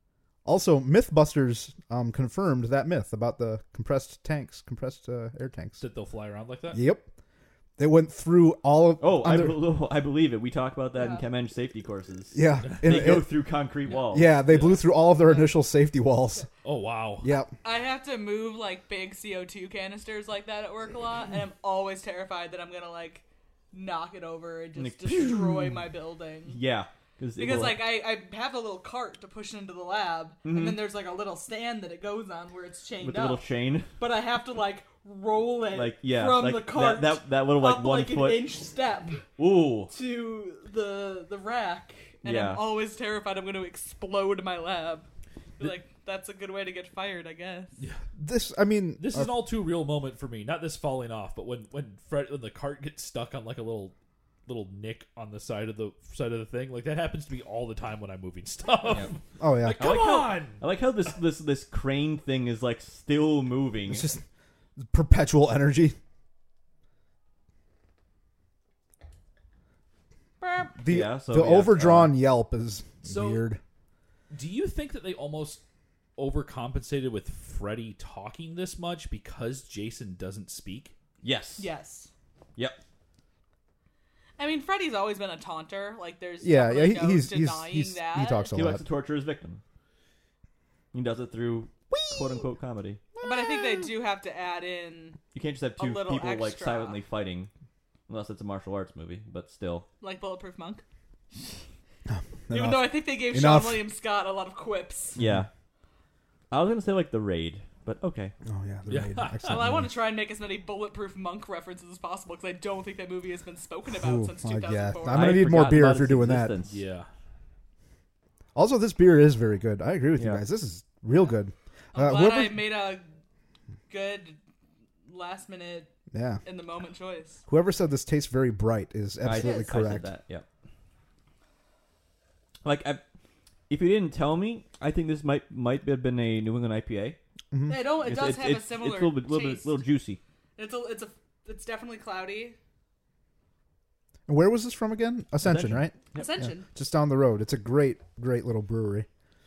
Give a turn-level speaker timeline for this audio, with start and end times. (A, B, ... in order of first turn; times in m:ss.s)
0:00.4-0:05.8 A
0:05.8-0:06.8 B
0:06.7-0:07.1 A
0:07.8-0:09.6 A
0:09.0-0:14.3 C
0:10.9-0:11.2 D
0:12.3-0:13.3 A
0:12.6-0:13.1 B
0:14.1-0:16.5 A
0:14.5-0:14.8 B
0:15.2-0:15.5 D
0:16.6-0:17.3 B
0:17.2-0:17.5 A
0:17.6-0:26.6 D
0:24.8-0:25.8 C
0:26.5-0:27.8 C
0:27.4-0:33.4 D
0:30.4-0:30.8 C
0:33.0-0:33.9 C
0:34.0-0:39.2 D
0:35.7-0:38.4 C
0:39.4-0:39.9 C
0:39.9-0:45.1 D
0:42.2-0:42.6 C
0:45.6-0:47.8 D
0:48.2-0:49.4 A
0:49.0-0:53.9 B
0:54.4-1:00.6 B
0:58.9-0:59.1 C
0:59.4-1:00.0 A
0:59.8-1:04.1 C
1:03.9-1:04.2 A
1:04.8-1:06.0 A
1:10.4-1:10.7 D
1:10.7-1:13.6 A
1:10.8-1:12.2 C
1:13.0-1:13.4 B
1:14.3-1:15.6 B
1:16.2-1:20.9 B
1:21.2-1:21.7 C
1:21.6-1:22.1 D
1:24.4-1:28.6 D
1:26.4-1:28.8 A
1:28.5-1:29.6 C
1:30.9-1:33.0 C
1:31.9-1:32.4 A
1:33.2-1:33.9 A
1:33.2-1:35.2 D
1:35.3-1:37.5 C
1:35.8-1:37.0 D
1:38.1-1:39.8 C
1:40.0-1:40.8 D
1:42.1-1:43.8 A
1:42.5-1:45.2 D
1:45.2-1:45.5 A
1:45.2-1:45.5 C
1:46.5-1:48.3 C
1:48.4-1:49.9 A
1:48.9-1:49.7 B
1:49.4-1:55.4 D
1:53.9-1:56.5 A
1:55.1-1:56.8 C
1:56.6-1:57.1 B
1:58.5-2:02.6 A
2:00.2-2:00.4 C
2:01.9-2:03.0 D
2:03.9-2:04.4 D
2:05.1-2:05.9 D
2:06.1-2:06.4 A
2:06.4-2:07.4 D
2:07.5-2:10.1 A
2:09.2-2:10.4 C
2:09.3-2:09.8 D
2:12.6-2:13.0 C
2:13.7-2:17.2 C
2:17.5-2:17.9 A
2:17.7-2:19.8 D
2:17.9-2:20.2 C
2:20.6-2:22.6 D
2:24.3-2:29.1 A
2:25.4-2:26.3 C
2:26.1-2:26.7 D